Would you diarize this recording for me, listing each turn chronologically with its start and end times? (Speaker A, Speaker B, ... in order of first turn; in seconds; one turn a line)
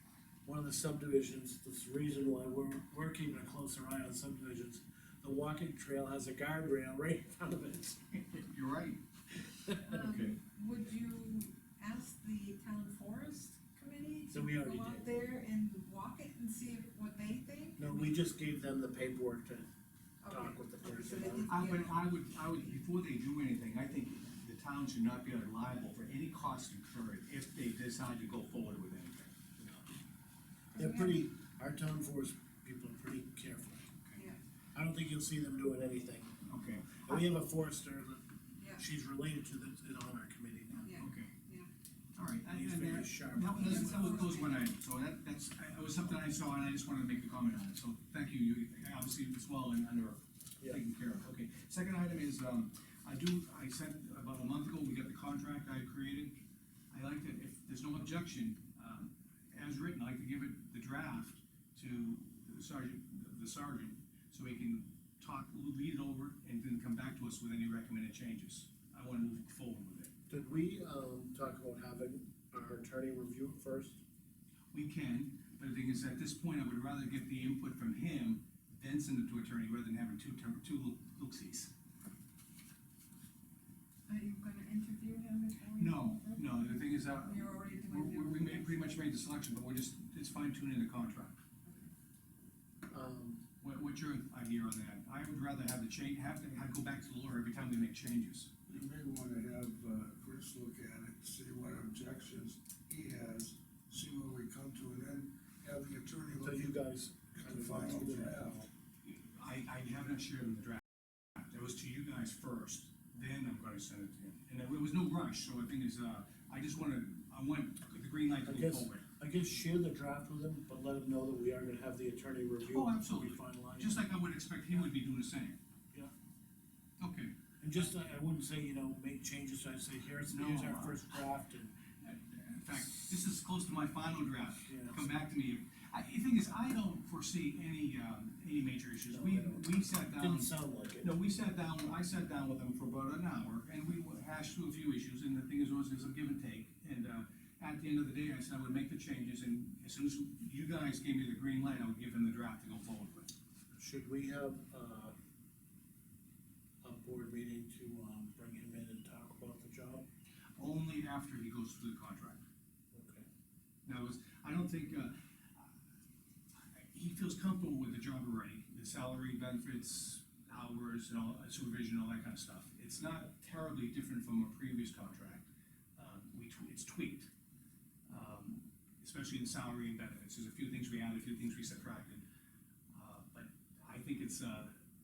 Speaker A: 0.4-8.4
Speaker B: 8.5-9.0
Speaker A: 9.6-9.9
Speaker C: 9.8-18.1
Speaker B: 10.0-10.4
Speaker A: 14.3-15.2
Speaker A: 17.8-19.7
Speaker C: 20.2-21.9
Speaker A: 20.3-21.5
Speaker B: 21.5-29.9
Speaker C: 30.7-31.2
Speaker A: 30.8-33.9
Speaker A: 34.7-36.3
Speaker B: 36.5-37.3
Speaker A: 37.0-38.2
Speaker C: 38.6-38.8
Speaker A: 38.8-41.0
Speaker C: 40.9-41.7
Speaker B: 41.0-41.3
Speaker B: 42.1-70.1
Speaker A: 42.5-44.3
Speaker C: 43.5-44.7
Speaker A: 70.3-74.0
Speaker B: 74.7-81.7
Speaker C: 84.1-89.2
Speaker B: 85.8-91.4
Speaker A: 92.9-93.4
Speaker B: 93.6-98.5
Speaker D: 98.7-106.7
Speaker A: 106.3-108.7
Speaker D: 107.4-108.5
Speaker B: 109.0-110.8
Speaker B: 111.3-119.0
Speaker A: 118.4-124.0
Speaker B: 122.6-125.6
Speaker B: 127.0-127.3
Speaker A: 127.6-131.7
Speaker B: 130.3-131.1
Speaker B: 132.0-153.3
Speaker A: 134.6-135.2
Speaker A: 139.1-141.1
Speaker A: 153.7-155.1
Speaker A: 156.8-160.0
Speaker B: 160.6-162.4
Speaker A: 162.9-163.2
Speaker B: 163.8-165.7
Speaker B: 166.7-177.3
Speaker B: 178.1-182.2
Speaker B: 182.9-184.7